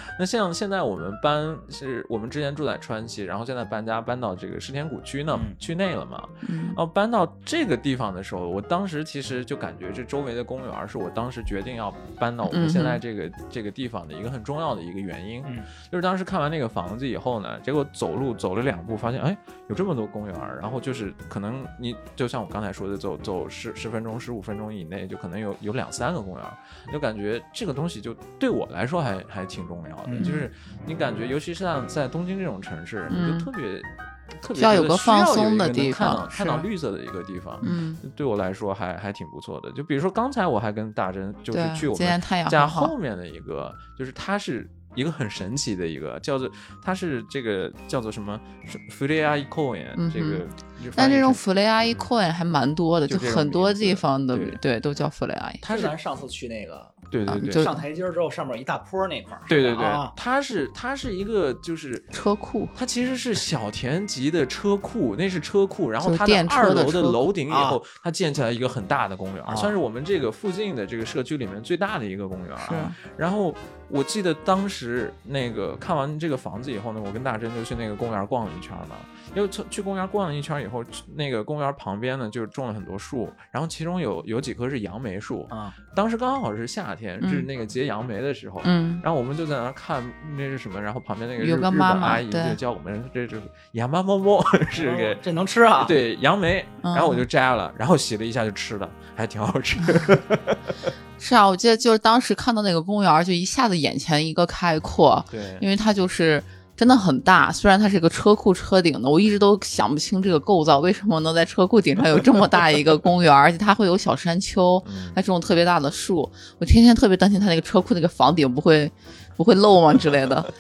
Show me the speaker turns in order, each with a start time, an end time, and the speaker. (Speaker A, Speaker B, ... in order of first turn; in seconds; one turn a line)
Speaker A: 0.2-33.9
Speaker B: 6.4-6.8
Speaker B: 12.5-13.0
Speaker B: 30.2-30.4
Speaker B: 33.1-33.5
Speaker A: 34.4-51.4
Speaker B: 34.6-36.6
Speaker B: 37.6-38.0
Speaker B: 41.5-42.9
Speaker B: 50.0-50.4
Speaker B: 51.0-55.6
Speaker A: 53.1-54.6
Speaker C: 55.6-60.1
Speaker A: 55.6-55.9
Speaker A: 57.1-57.8
Speaker B: 57.3-57.8
Speaker A: 59.5-62.1
Speaker B: 62.1-62.7
Speaker A: 62.8-95.2
Speaker B: 66.0-67.2
Speaker C: 67.5-67.8
Speaker C: 69.5-69.8
Speaker B: 72.6-73.0
Speaker C: 85.5-85.8
Speaker B: 87.2-87.5
Speaker B: 88.6-89.0
Speaker B: 91.4-92.6
Speaker C: 94.7-96.0
Speaker A: 95.8-100.6
Speaker B: 96.8-97.2
Speaker B: 101.2-120.5
Speaker A: 105.3-105.7
Speaker A: 114.8-115.2